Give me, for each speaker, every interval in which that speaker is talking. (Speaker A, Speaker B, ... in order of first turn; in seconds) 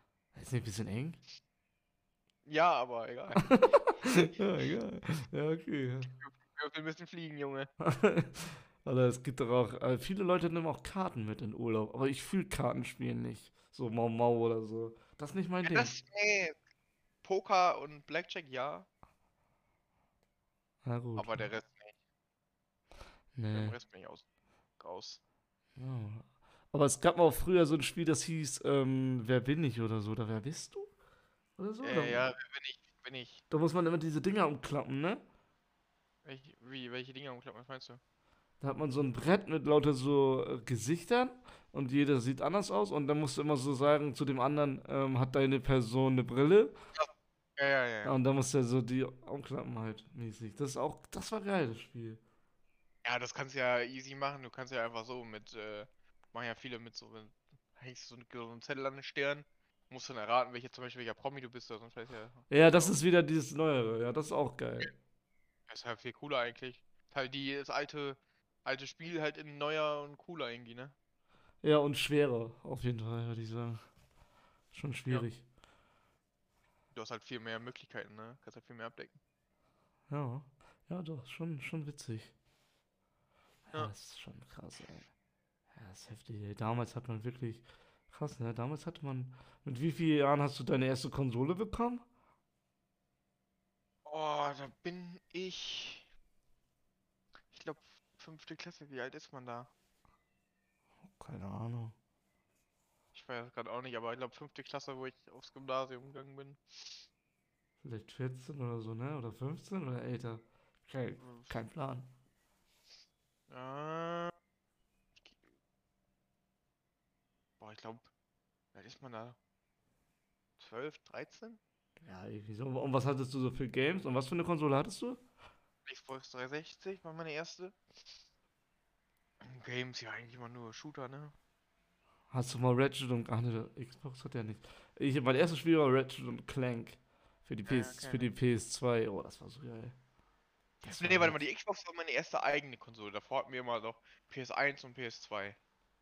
Speaker A: 0.3-1.2, 3.4-6.1, 7.8-15.9, 20.8-21.5, 23.4-23.8, 25.8-30.9, 31.6-32.3, 33.5-35.2, 38.6-46.8, 48.0-52.2, 62.5-64.9, 71.6-73.8, 74.7-75.4, 80.1-82.3, 83.7-85.1, 85.7-92.0, 101.2-102.0, 107.8-112.1, 122.0-125.2, 132.3-139.9, 140.8-141.4
Speaker B: 2.5-3.7, 6.1-7.7, 15.7-16.6, 17.2-18.9, 21.2-21.9, 23.5-24.2, 24.8-25.2, 31.8-33.4, 36.2-38.0, 47.0-48.1, 53.0-63.0, 65.7-71.0, 76.9-79.2, 94.1-96.1, 97.5-99.7, 103.1-107.0, 111.2-111.5, 113.5-114.3, 117.6-118.1, 118.7-119.4, 120.6-121.6, 125.9-127.8, 129.4-131.3, 137.7-138.3, 140.8-145.6